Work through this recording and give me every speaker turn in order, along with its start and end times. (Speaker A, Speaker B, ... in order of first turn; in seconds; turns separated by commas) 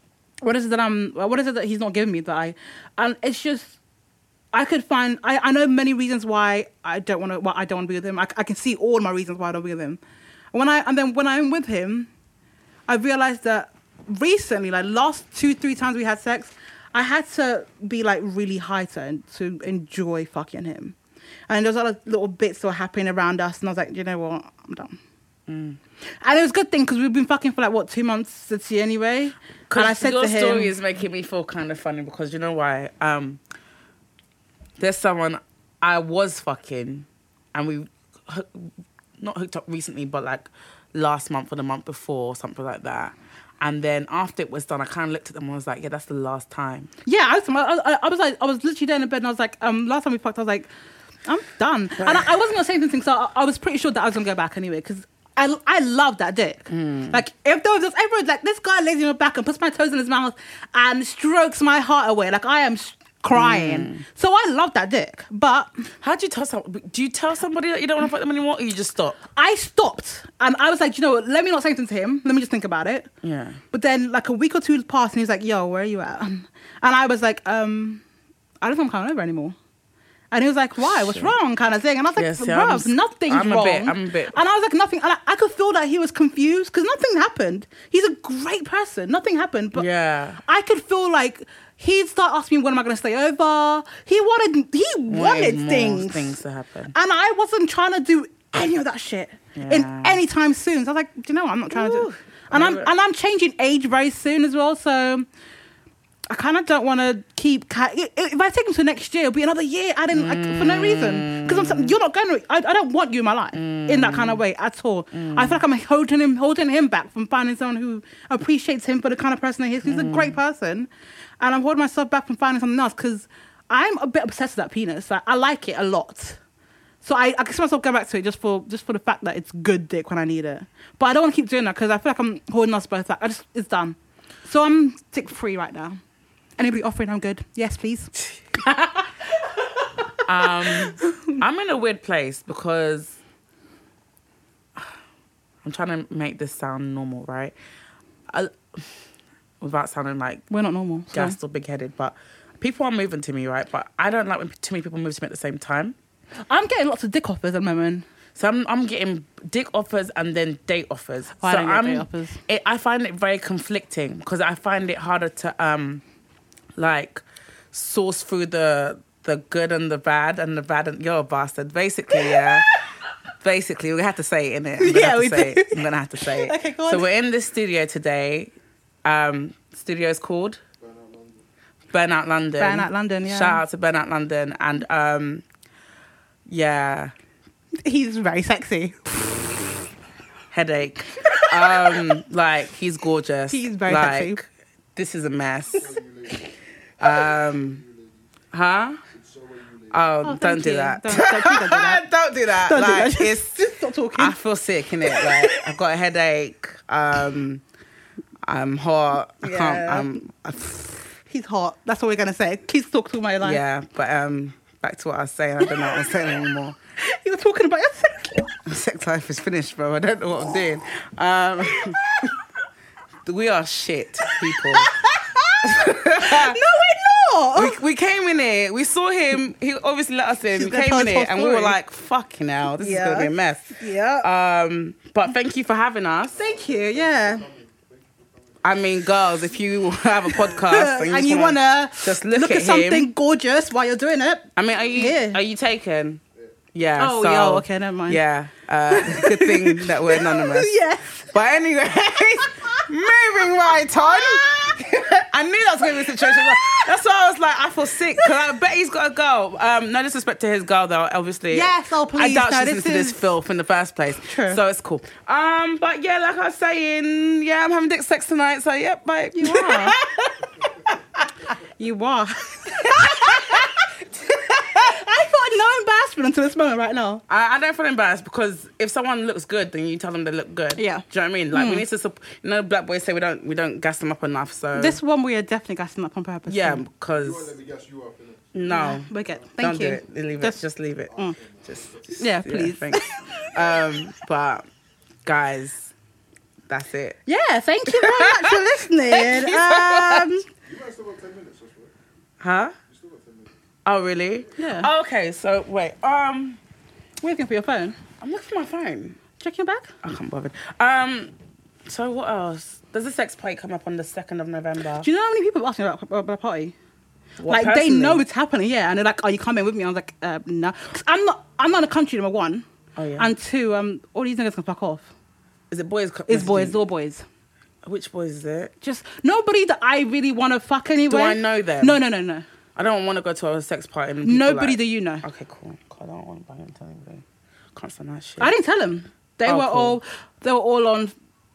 Speaker A: 0.4-3.8, Speaker A: 4.5-10.0, Speaker A: 10.5-12.1, Speaker A: 12.9-21.0, Speaker A: 21.5-25.0, Speaker B: 25.5-25.8, Speaker A: 26.2-30.8, Speaker B: 29.7-33.4, Speaker B: 34.8-46.9, Speaker A: 47.0-50.7, Speaker A: 51.3-65.8, Speaker B: 52.0-52.3, Speaker B: 56.7-57.2, Speaker B: 63.3-64.0, Speaker B: 66.0-69.2, Speaker A: 69.3-73.1, Speaker B: 73.2-73.6, Speaker A: 73.7-78.0, Speaker A: 78.6-79.6, Speaker A: 80.3-89.9, Speaker B: 80.8-81.3, Speaker B: 82.2-84.4, Speaker B: 89.8-90.4, Speaker A: 90.4-96.4, Speaker B: 95.1-96.9, Speaker A: 96.9-105.3, Speaker B: 99.5-100.2, Speaker B: 101.7-102.9, Speaker A: 106.3-120.9, Speaker B: 110.1-112.0, Speaker B: 113.5-114.4, Speaker B: 115.1-115.6, Speaker B: 119.8-120.3, Speaker A: 121.4-126.4, Speaker A: 127.0-136.0, Speaker A: 136.6-141.4, Speaker B: 140.3-143.2, Speaker B: 145.6-147.6, Speaker B: 148.3-148.8, Speaker B: 149.6-150.4, Speaker A: 150.5-151.4, Speaker B: 151.1-156.0, Speaker A: 156.5-158.1, Speaker B: 158.4-166.0, Speaker A: 161.4-162.4, Speaker B: 166.8-172.7, Speaker A: 172.2-172.4, Speaker B: 173.4-178.5, Speaker A: 174.8-177.1, Speaker B: 179.0-180.6, Speaker C: 180.8-181.4, Speaker B: 181.9-185.4, Speaker A: 182.6-183.6, Speaker B: 186.5-187.1, Speaker A: 187.8-189.1, Speaker B: 190.5-196.0, Speaker A: 191.2-192.0, Speaker A: 193.5-194.4, Speaker C: 195.7-196.5, Speaker B: 197.0-197.8, Speaker C: 197.1-198.2, Speaker B: 198.5-199.0, Speaker C: 199.1-200.0, Speaker B: 199.9-203.5, Speaker A: 200.2-204.4, Speaker B: 204.2-207.6, Speaker A: 205.1-205.6, Speaker B: 208.4-211.0, Speaker A: 209.4-210.2, Speaker A: 211.3-213.6, Speaker B: 213.4-216.8, Speaker A: 215.6-215.9, Speaker A: 217.0-218.6, Speaker B: 218.7-222.3, Speaker B: 223.3-224.9, Speaker A: 224.3-227.8, Speaker B: 225.6-226.6, Speaker B: 227.6-236.4, Speaker A: 230.5-231.8, Speaker A: 232.8-234.3, Speaker C: 236.3-239.5, Speaker A: 236.3-237.5, Speaker B: 238.6-243.1, Speaker A: 240.3-245.4, Speaker B: 244.6-246.2, Speaker B: 246.7-271.3, Speaker A: 247.0-248.2, Speaker A: 248.9-251.3, Speaker A: 252.4-252.8, Speaker A: 253.6-254.8, Speaker A: 255.9-256.9, Speaker A: 261.5-263.3, Speaker A: 264.2-264.6, Speaker A: 269.4-270.0, Speaker A: 271.8-273.7, Speaker B: 272.7-273.7, Speaker A: 274.5-277.2, Speaker B: 277.3-285.0, Speaker A: 280.8-281.8, Speaker A: 284.8-286.9, Speaker B: 286.5-287.5, Speaker C: 287.2-288.6, Speaker B: 288.5-294.6, Speaker A: 288.6-290.6, Speaker C: 291.1-292.2, Speaker A: 292.2-293.4, Speaker B: 295.2-295.9, Speaker B: 296.7-297.2, Speaker A: 297.3-300.5, Speaker B: 297.9-300.3, Speaker C: 300.7-301.9, Speaker B: 302.4-302.8, Speaker C: 302.9-303.5, Speaker B: 303.9-306.6, Speaker A: 304.6-304.9, Speaker A: 307.2-308.0, Speaker B: 308.2-309.2, Speaker A: 309.4-309.9, Speaker B: 310.0-311.3, Speaker B: 311.9-315.1, Speaker A: 315.0-316.8, Speaker B: 317.4-318.2, Speaker A: 317.5-322.6, Speaker B: 323.0-323.3, Speaker A: 323.2-325.1, Speaker B: 325.7-326.8, Speaker A: 326.3-327.2, Speaker B: 327.8-328.7, Speaker A: 328.8-332.4, Speaker B: 331.1-332.0, Speaker B: 332.8-338.5, Speaker A: 334.2-335.2, Speaker A: 338.4-341.1, Speaker B: 339.4-340.0